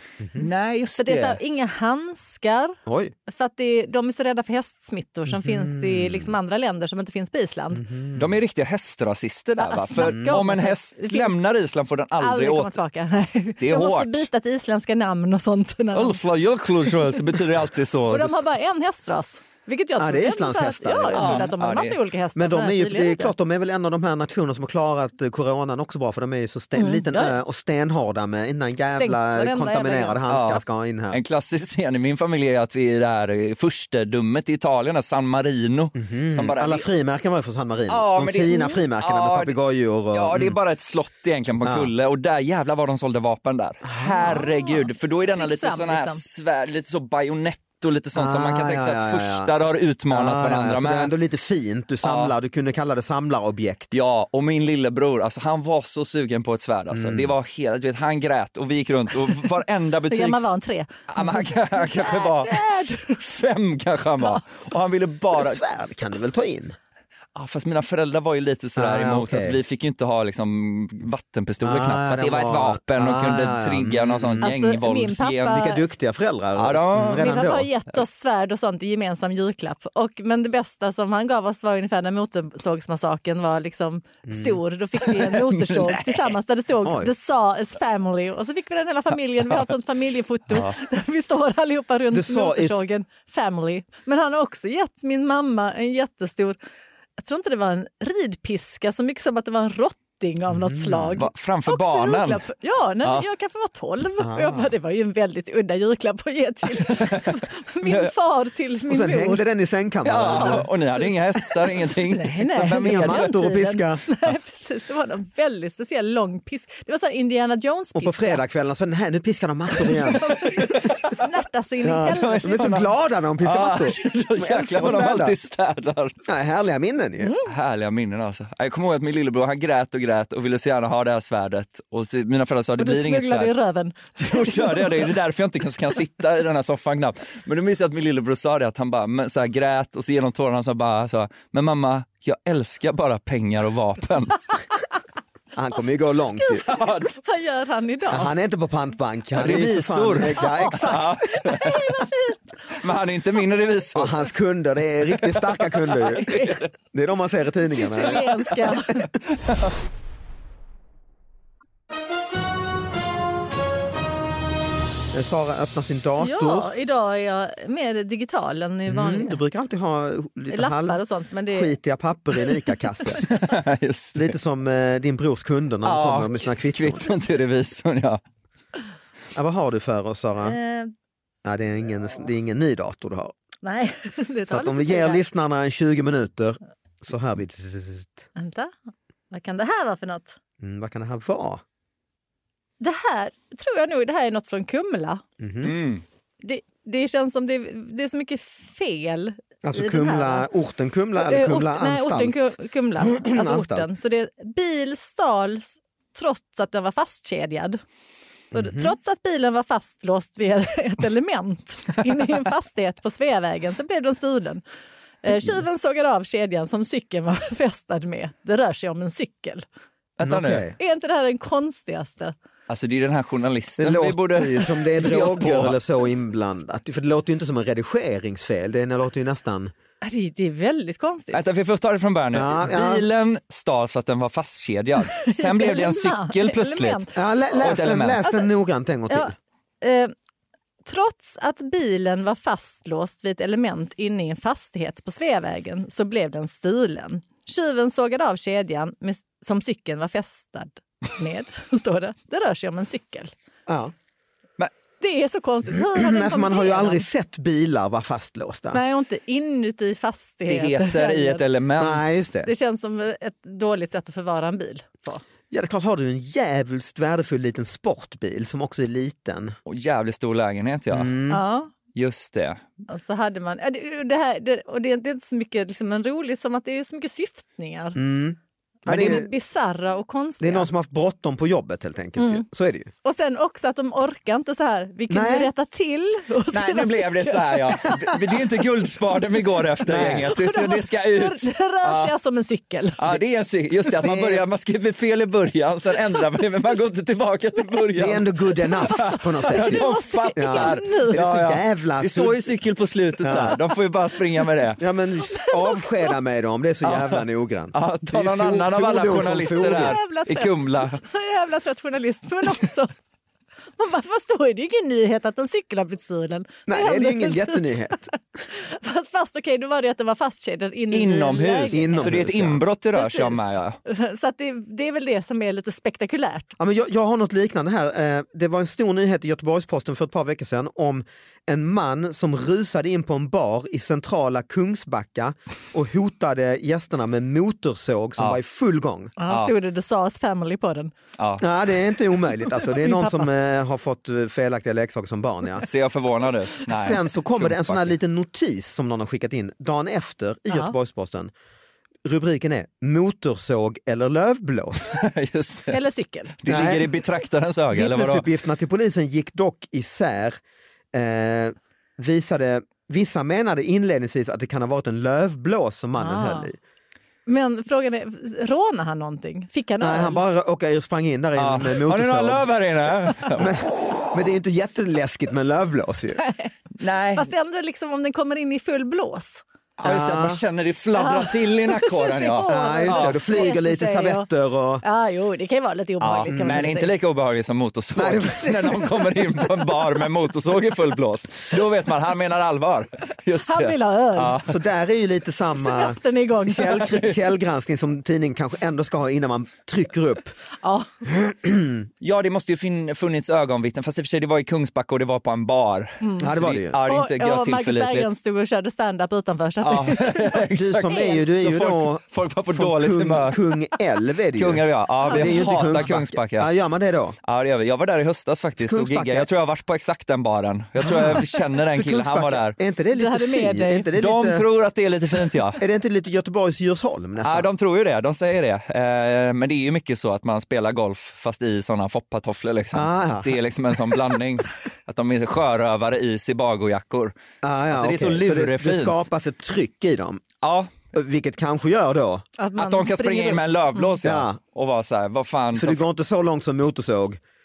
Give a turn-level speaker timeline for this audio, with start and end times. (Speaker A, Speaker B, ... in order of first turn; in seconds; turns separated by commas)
Speaker A: 0.3-1.4, Speaker B: 1.0-2.8, Speaker C: 2.9-3.1, Speaker B: 3.3-7.9, Speaker C: 5.3-6.4, Speaker C: 7.8-8.3, Speaker A: 8.1-12.8, Speaker B: 9.6-11.4, Speaker C: 10.0-10.4, Speaker B: 12.2-16.2, Speaker A: 13.6-14.3, Speaker A: 15.9-18.4, Speaker B: 16.8-17.4, Speaker B: 18.1-23.3, Speaker C: 20.0-21.5, Speaker A: 21.1-22.0, Speaker C: 22.4-31.2, Speaker B: 26.7-27.4, Speaker B: 28.9-30.2, Speaker A: 30.3-36.8, Speaker C: 36.0-40.5, Speaker A: 37.9-39.5, Speaker A: 40.1-51.1, Speaker C: 41.6-41.9, Speaker C: 43.8-44.5, Speaker B: 44.2-46.2, Speaker C: 48.1-49.5, Speaker C: 50.1-53.9, Speaker A: 52.0-52.3, Speaker A: 53.9-60.5, Speaker C: 56.9-57.3, Speaker B: 60.1-63.2, Speaker A: 61.1-65.6, Speaker C: 65.3-66.8, Speaker A: 67.3-75.7, Speaker C: 68.8-69.6, Speaker C: 71.6-74.5, Speaker B: 74.4-75.8, Speaker C: 75.5-77.7, Speaker A: 76.5-77.5, Speaker B: 77.1-96.6, Speaker C: 84.3-84.6, Speaker A: 85.0-86.3, Speaker C: 86.8-87.1, Speaker C: 92.1-92.8, Speaker B: 97.2-109.4, Speaker C: 100.5-101.2, Speaker A: 101.2-102.4, Speaker C: 104.2-104.7, Speaker A: 106.8-108.1, Speaker C: 108.9-110.7, Speaker A: 110.0-113.2, Speaker B: 110.3-118.4, Speaker C: 112.8-114.0, Speaker C: 117.9-120.8, Speaker A: 119.8-121.2, Speaker B: 120.1-122.8, Speaker C: 121.8-125.3, Speaker A: 122.0-126.2, Speaker C: 126.2-127.3, Speaker B: 127.2-127.5, Speaker A: 127.5-133.5, Speaker B: 132.8-135.1, Speaker A: 134.2-144.5, Speaker C: 145.6-146.7, Speaker B: 146.4-148.3, Speaker A: 146.7-147.1, Speaker C: 148.1-151.4, Speaker A: 149.3-152.1, Speaker B: 150.4-150.7, Speaker B: 151.3-152.4, Speaker A: 152.7-154.3, Speaker C: 153.9-158.3, Speaker A: 155.1-156.7, Speaker B: 156.2-156.6, Speaker B: 157.6-159.1, Speaker A: 158.1-158.6, Speaker A: 159.4-159.7, Speaker C: 165.1-166.7, Speaker B: 166.2-169.4, Speaker C: 168.9-173.2, Speaker B: 170.5-171.7, Speaker A: 173.2-174.3, Speaker C: 174.2-177.1, Speaker A: 175.8-178.2, Speaker C: 179.3-180.6, Speaker B: 180.4-180.9, Speaker C: 181.4-183.3, Speaker B: 183.6-185.2, Speaker C: 184.5-188.3, Speaker B: 188.3-188.7, Speaker B: 189.3-190.4, Speaker C: 190.6-191.6, Speaker B: 192.8-195.2, Speaker C: 195.4-195.7, Speaker A: 195.6-196.0, Speaker B: 196.4-200.5, Speaker C: 199.6-203.9, Speaker B: 201.2-207.8, Speaker C: 208.5-208.9, Speaker B: 208.5-214.6, Speaker B: 215.2-219.6, Speaker A: 220.2-220.7, Speaker C: 220.2-220.8, Speaker B: 220.8-222.3, Speaker A: 222.7-225.8, Speaker C: 223.8-229.7, Speaker B: 230.0-231.4, Speaker A: 231.3-237.0, Speaker C: 232.3-233.1, Speaker B: 235.0-238.4, Speaker C: 237.1-239.3, Speaker A: 237.6-238.2, Speaker B: 239.1-240.1, Speaker B: 240.8-253.3, Speaker C: 253.7-253.9, Speaker B: 255.0-257.1, Speaker C: 255.7-258.8, Speaker B: 258.7-261.4, Speaker A: 260.5-262.1, Speaker C: 261.8-262.5, Speaker B: 262.4-265.2, Speaker C: 265.5-269.6, Speaker A: 269.7-271.2, Speaker C: 270.9-271.4, Speaker B: 271.3-271.7, Speaker A: 271.9-272.6, Speaker B: 272.9-278.0, Speaker C: 277.9-279.3, Speaker B: 278.9-280.7, Speaker A: 278.9-279.2, Speaker C: 280.4-282.9, Speaker B: 282.2-282.4, Speaker B: 283.0-288.0, Speaker C: 285.1-285.5, Speaker A: 286.5-292.1, Speaker C: 289.9-290.3, Speaker B: 290.0-293.2, Speaker A: 293.0-304.8, Speaker C: 294.0-294.4, Speaker C: 297.9-302.4, Speaker B: 298.7-301.2, Speaker C: 303.2-303.6, Speaker C: 304.8-310.0, Speaker B: 305.2-306.1, Speaker A: 306.8-311.0, Speaker B: 309.5-312.9, Speaker B: 313.8-322.2, Speaker C: 316.7-318.1, Speaker A: 320.9-323.8, Speaker C: 321.7-322.6, Speaker B: 322.9-326.5, Speaker C: 326.6-339.1, Speaker B: 339.2-340.9, Speaker A: 339.3-339.5, Speaker A: 341.2-341.4, Speaker C: 341.4-345.7, Speaker B: 342.5-343.3, Speaker A: 345.6-347.9, Speaker C: 346.6-351.3, Speaker C: 352.0-355.0, Speaker A: 354.8-355.8, Speaker B: 355.7-356.4, Speaker A: 356.4-358.2, Speaker C: 356.5-356.9, Speaker C: 357.7-360.4, Speaker C: 360.9-366.6, Speaker B: 366.0-366.5, Speaker B: 367.2-370.2, Speaker C: 369.8-372.5, Speaker A: 371.4-373.6, Speaker C: 373.3-376.2, Speaker B: 376.2-376.5, Speaker A: 376.8-377.3, Speaker B: 377.1-379.4, Speaker A: 379.8-383.2, Speaker C: 379.8-380.4, Speaker B: 380.9-384.3, Speaker C: 382.5-384.8, Speaker B: 384.8-386.9, Speaker A: 386.0-394.6, Speaker C: 386.3-386.6, Speaker C: 387.9-389.0, Speaker B: 393.4-394.4, Speaker C: 394.4-400.3, Speaker B: 395.5-397.1, Speaker A: 396.6-397.2, Speaker B: 400.6-401.0, Speaker C: 401.1-401.9, Speaker A: 402.0-408.1, Speaker B: 406.0-406.3, Speaker C: 406.2-406.8, Speaker B: 406.8-411.2, Speaker A: 409.6-413.4, Speaker C: 410.5-412.0, Speaker C: 412.5-417.2, Speaker A: 414.3-416.5, Speaker B: 415.1-415.5, Speaker A: 417.2-422.6, Speaker C: 418.6-419.3, Speaker C: 420.8-424.4, Speaker B: 422.9-423.9, Speaker A: 423.9-425.6, Speaker C: 425.6-427.5, Speaker A: 427.2-437.2, Speaker C: 432.7-433.4, Speaker C: 437.4-440.2, Speaker A: 437.7-439.1, Speaker A: 440.4-440.8, Speaker C: 440.9-442.2, Speaker B: 442.4-444.0, Speaker A: 442.6-445.8, Speaker C: 444.0-444.4, Speaker C: 445.5-447.2